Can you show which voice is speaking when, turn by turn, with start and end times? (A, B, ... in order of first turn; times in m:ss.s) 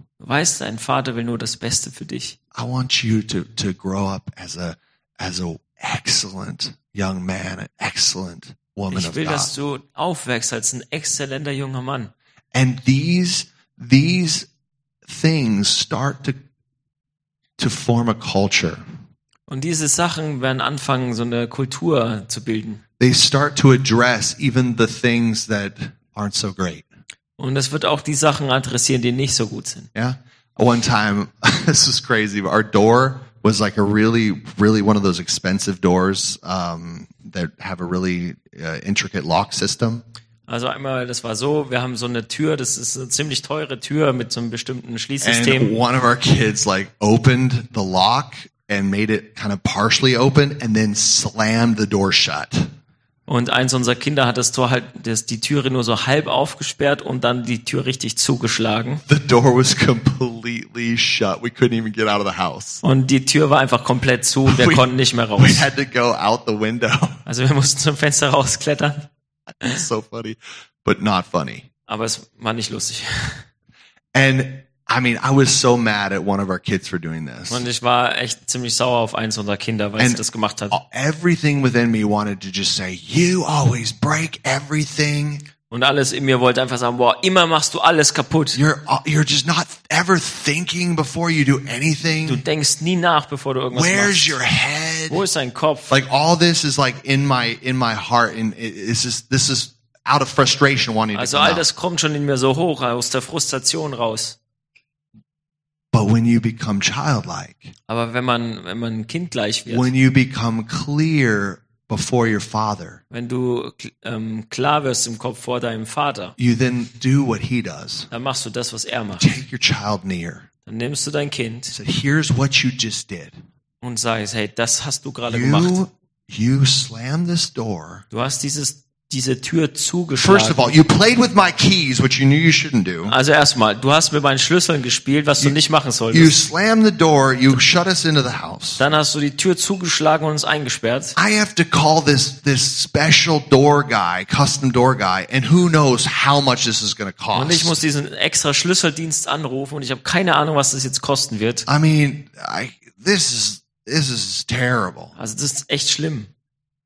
0:00.2-0:02.4 A
0:02.5-0:09.5 B
0:08.9-0:12.1 A
0:12.5-0:14.5 B
0:15.1-0:16.4 B
0:17.6-0:18.8 B
0:19.5-0:22.8 A
0:23.0-0:26.9 B
0:27.4-0:29.9 A
0:30.0-0:40.0 B
0:40.5-0:45.8 A
0:45.2-0:52.7 B
0:53.3-0:59.0 A
0:59.1-1:02.8 B
1:02.8-1:05.7 A
1:04.5-1:07.2 B
1:07.3-1:09.1 A
1:09.6-1:11.7 B
1:11.9-1:13.4 A
1:14.1-1:17.6 B
1:17.5-1:20.8 A
1:20.0-1:25.4 B
1:25.7-1:28.6 A
1:28.6-1:32.4 B
1:32.2-1:34.4 A
1:33.7-1:35.2 B
1:35.1-1:35.9 A
1:35.9-1:41.7 B
1:41.1-1:44.4 A
1:45.9-1:47.7 B
1:47.9-1:49.9 A
1:49.7-1:53.0 B
1:53.1-1:56.4 A
1:56.4-1:58.1 B
1:58.1-1:59.3 A
1:59.2-2:00.5 B
2:00.7-2:01.8 A
2:01.7-2:03.4 B
2:03.8-2:05.8 A
2:05.3-2:08.0 B
2:08.1-2:10.8 A
2:10.2-2:13.2 B
2:13.1-2:16.4 A
2:16.1-2:18.8 B
2:18.8-2:21.2 A
2:21.2-2:27.8 B
2:27.3-2:31.6 A
2:31.7-2:35.2 B
2:35.2-2:36.3 A